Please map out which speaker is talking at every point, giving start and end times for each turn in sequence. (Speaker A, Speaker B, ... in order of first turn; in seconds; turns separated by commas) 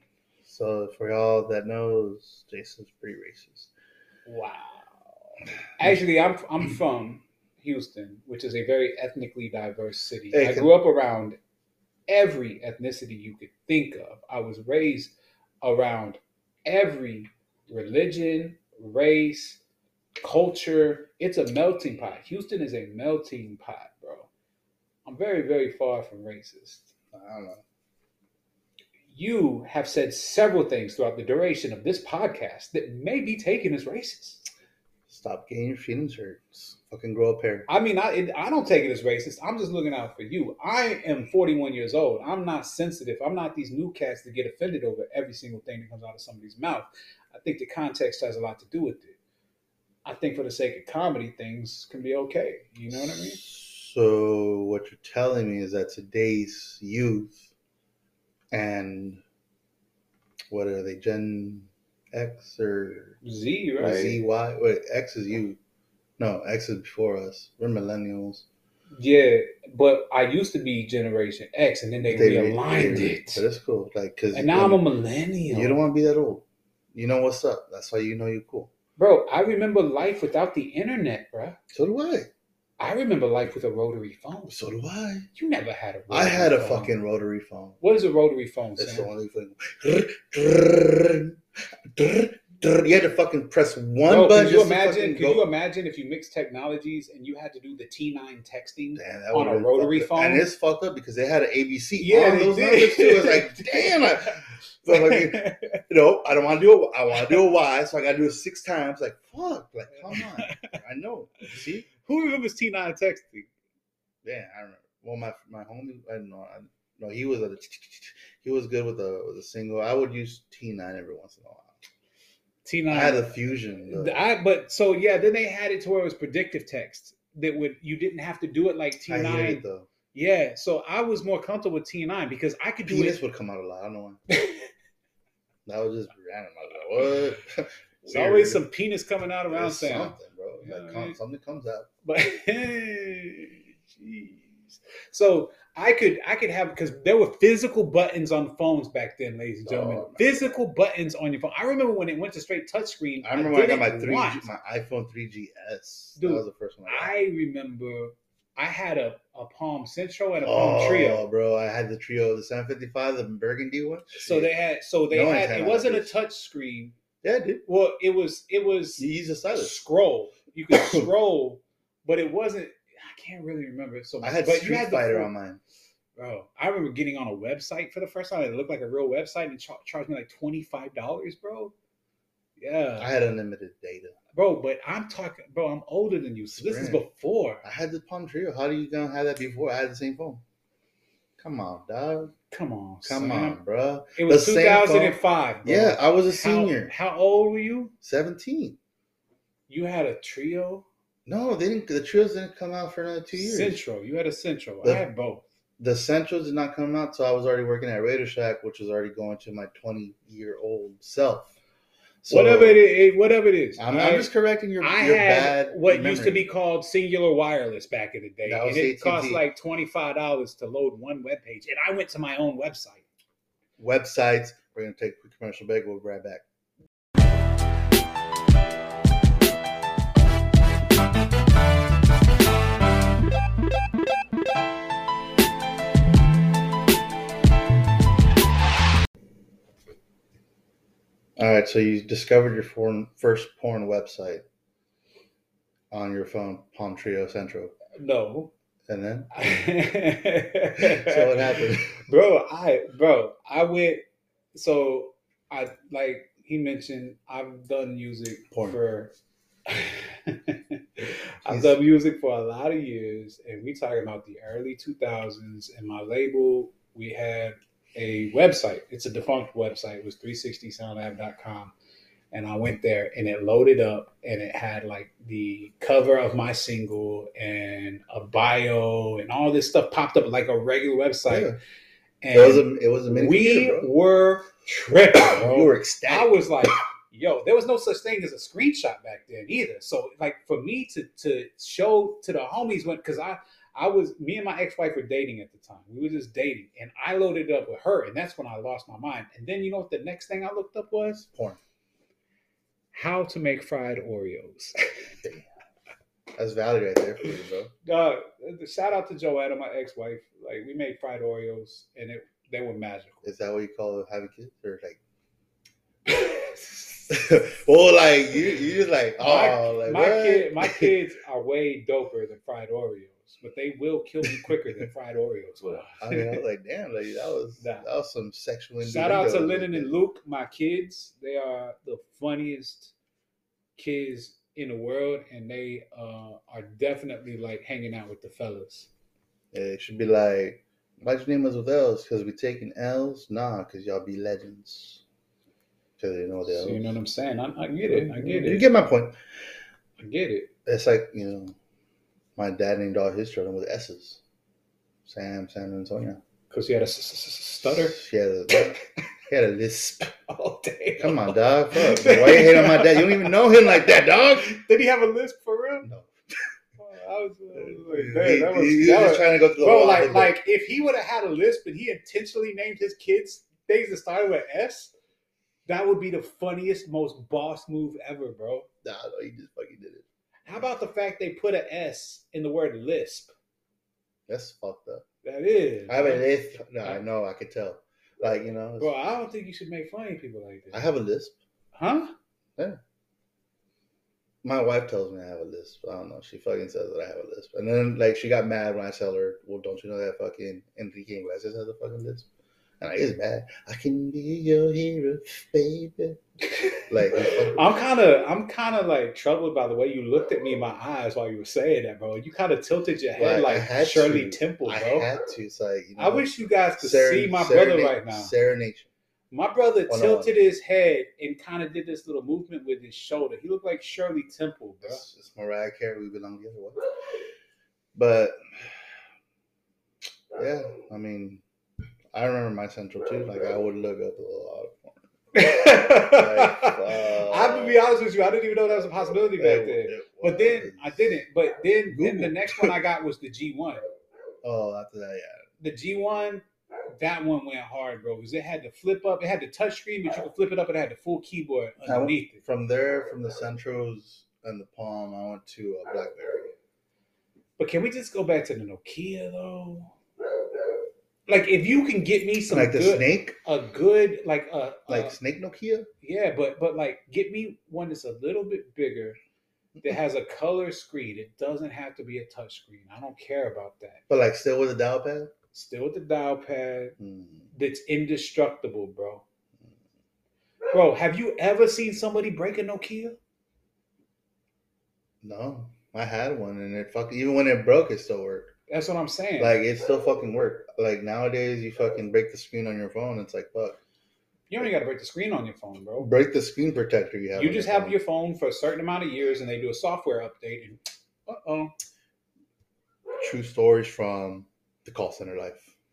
Speaker A: 0.4-3.7, Speaker B: 4.2-5.0, Speaker B: 5.8-11.4, Speaker A: 10.3-10.7, Speaker B: 12.1-19.6, Speaker B: 20.2-24.3, Speaker B: 25.0-26.9, Speaker A: 27.1-27.6, Speaker B: 29.1-34.4, Speaker A: 35.1-37.7, Speaker B: 37.7-49.1, Speaker B: 50.0-53.4, Speaker A: 52.9-57.5, Speaker A: 58.5-59.2, Speaker A: 60.5-63.1, Speaker B: 63.2-64.2, Speaker A: 63.8-65.6, Speaker A: 66.2-68.5, Speaker B: 68.9-73.4, Speaker A: 72.1-74.8, Speaker B: 74.3-75.8, Speaker A: 75.5-78.7, Speaker B: 79.0-81.6, Speaker A: 81.7-82.3, Speaker B: 82.8-84.6, Speaker A: 84.5-85.3, Speaker B: 85.3-86.9, Speaker A: 86.1-87.8, Speaker B: 87.8-89.1, Speaker A: 88.8-91.4, Speaker A: 91.9-95.5, Speaker B: 94.0-100.4, Speaker A: 99.0-111.9, Speaker B: 102.0-105.8, Speaker B: 110.0-110.8, Speaker B: 111.9-113.5, Speaker A: 114.2-121.7, Speaker B: 122.6-123.3, Speaker A: 122.9-124.2, Speaker B: 123.9-133.2, Speaker A: 129.1-129.9, Speaker A: 132.8-134.2, Speaker B: 134.3-134.7, Speaker A: 135.7-138.6, Speaker B: 138.1-141.2, Speaker A: 139.5-141.9, Speaker B: 142.1-154.5, Speaker A: 149.7-150.6, Speaker A: 153.2-157.1, Speaker B: 156.2-161.2, Speaker A: 160.4-164.5, Speaker B: 164.1-166.9, Speaker A: 165.1-166.1, Speaker A: 167.2-167.6, Speaker B: 167.7-175.3, Speaker A: 169.0-169.8, Speaker A: 170.7-171.1, Speaker A: 174.2-175.6, Speaker B: 176.2-181.7, Speaker B: 182.6-183.1, Speaker A: 183.0-184.1, Speaker B: 184.3-187.6, Speaker A: 186.5-187.0, Speaker A: 187.6-190.4, Speaker A: 191.4-192.3, Speaker B: 192.5-193.6, Speaker A: 193.0-196.9, Speaker B: 194.2-197.9, Speaker A: 198.0-198.8, Speaker B: 199.7-200.9, Speaker A: 201.2-203.8, Speaker B: 203.3-205.5, Speaker A: 205.8-211.6, Speaker A: 212.2-212.8, Speaker B: 212.3-214.3, Speaker A: 213.8-216.5, Speaker B: 214.8-223.1, Speaker A: 218.4-219.4, Speaker A: 223.8-226.4, Speaker A: 241.4-244.4, Speaker A: 245.9-247.8, Speaker B: 247.9-248.5, Speaker A: 248.9-249.3, Speaker B: 249.3-259.1, Speaker A: 250.8-252.0, Speaker A: 258.5-258.8, Speaker B: 259.7-271.7, Speaker A: 261.4-261.8, Speaker B: 272.3-281.5, Speaker A: 281.3-281.6, Speaker B: 282.2-301.2, Speaker A: 282.3-283.9, Speaker A: 285.2-286.7, Speaker A: 301.2-301.6, Speaker B: 302.9-305.1, Speaker A: 306.4-307.7, Speaker B: 307.8-313.2, Speaker A: 313.2-315.0, Speaker B: 316.1-317.1, Speaker A: 317.1-320.9, Speaker B: 319.2-326.4, Speaker A: 324.2-324.5, Speaker A: 326.0-329.9, Speaker B: 327.6-327.9, Speaker B: 328.8-332.9, Speaker B: 333.8-338.9, Speaker A: 339.5-345.0, Speaker A: 346.0-346.9, Speaker B: 346.5-348.6, Speaker A: 347.9-349.2, Speaker B: 350.0-350.5, Speaker A: 350.6-351.6, Speaker A: 352.4-354.2, Speaker A: 355.1-356.2, Speaker B: 356.5-358.0, Speaker A: 357.7-360.1, Speaker B: 358.5-358.8, Speaker B: 360.3-365.9, Speaker A: 361.0-364.6, Speaker B: 366.8-374.9, Speaker A: 367.5-370.3, Speaker B: 375.6-378.7, Speaker A: 378.8-380.7, Speaker B: 380.4-383.3, Speaker A: 384.3-385.0, Speaker B: 385.2-387.0, Speaker A: 385.9-388.9, Speaker B: 388.8-390.9, Speaker A: 390.7-391.4, Speaker B: 391.7-392.1, Speaker A: 394.4-402.3, Speaker A: 402.8-406.2, Speaker B: 406.5-415.1, Speaker A: 406.9-407.6, Speaker A: 413.2-418.9, Speaker B: 416.0-418.3, Speaker B: 419.3-425.0, Speaker A: 419.9-420.3, Speaker A: 424.8-426.9, Speaker A: 427.9-428.8, Speaker A: 430.3-431.4, Speaker A: 432.1-435.0, Speaker B: 435.3-443.8, Speaker A: 435.6-437.8, Speaker A: 439.4-441.1, Speaker A: 441.9-442.7, Speaker A: 444.4-445.4, Speaker B: 445.6-452.4, Speaker A: 451.8-456.5, Speaker B: 457.6-459.9, Speaker B: 461.3-465.1, Speaker A: 462.5-463.4, Speaker A: 464.9-465.9, Speaker B: 466.0-469.2, Speaker B: 469.8-474.0, Speaker A: 474.1-475.3, Speaker B: 475.5-477.0, Speaker A: 477.0-477.5, Speaker B: 477.5-479.2, Speaker B: 480.7-483.2, Speaker A: 485.2-488.5, Speaker B: 488.7-489.6, Speaker A: 489.4-493.8, Speaker B: 494.5-496.1, Speaker A: 496.0-498.0, Speaker B: 497.3-501.7, Speaker A: 503.2-505.7